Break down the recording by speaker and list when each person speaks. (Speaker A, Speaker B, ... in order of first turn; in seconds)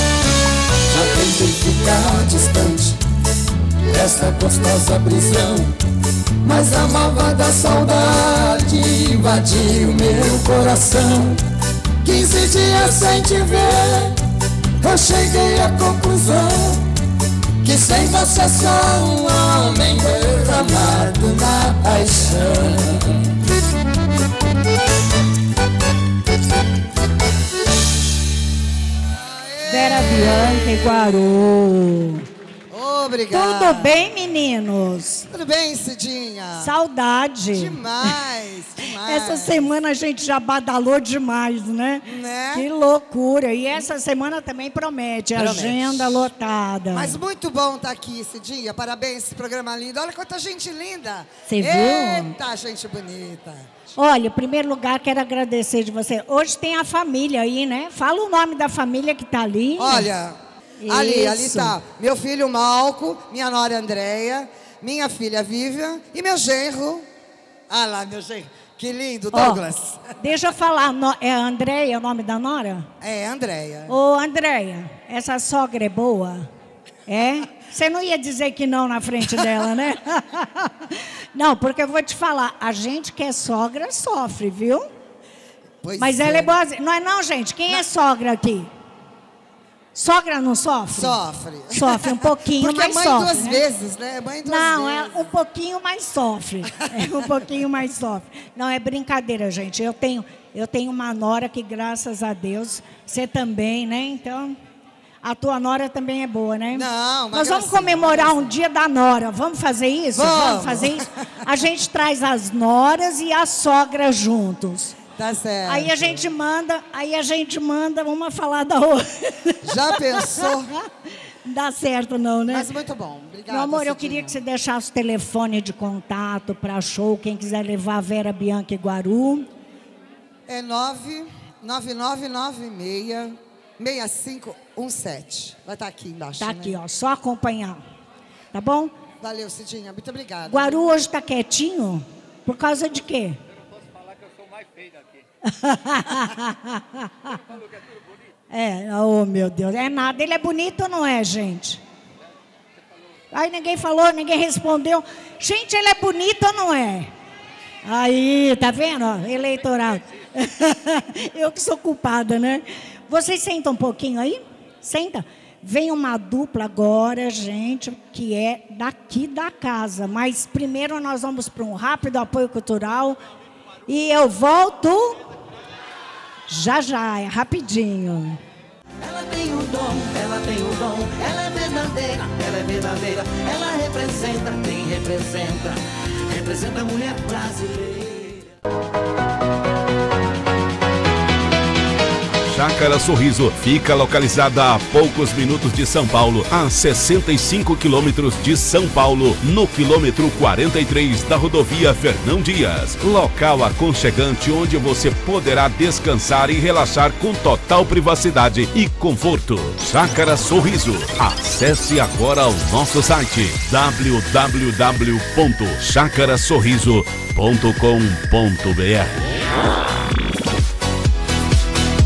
Speaker A: 0.9-3.0, 3.9-5.7, 6.4-11.4, 12.0-14.2, 14.8-16.8, 17.6-23.2
Speaker B: 29.1-30.8, 32.7-34.0, 35.3-36.7, 37.5-39.7, 42.0-42.7, 45.3-46.3, 46.9-53.7, 59.8-60.4, 60.9-67.1, 67.7-70.1, 73.0-73.9, 85.8-86.6, 90.9-95.3, 106.7-108.5, 110.1-111.0, 115.2-116.3, 119.6-120.7, 122.5-124.4, 130.5-136.8, 139.2-140.9
Speaker C: 29.7-32.3, 33.3-35.3, 36.5-38.2, 38.8-47.2, 51.5-52.4, 54.0-60.1, 60.8-61.8, 69.3-72.9, 73.9-76.5, 77.1-84.9, 86.0-88.7, 90.0-93.6, 94.5-104.6, 105.2-115.0, 115.7-120.6, 121.5-122.7, 123.5-129.5, 136.4-137.8, 138.5-138.9, 140.5-143.4, 145.4-147.4, 148.5-151.8, 153.3-157.1, 157.8-173.2, 173.9-175.2, 176.5-178.4
Speaker D: 179.0-188.5
Speaker E: 192.4-219.3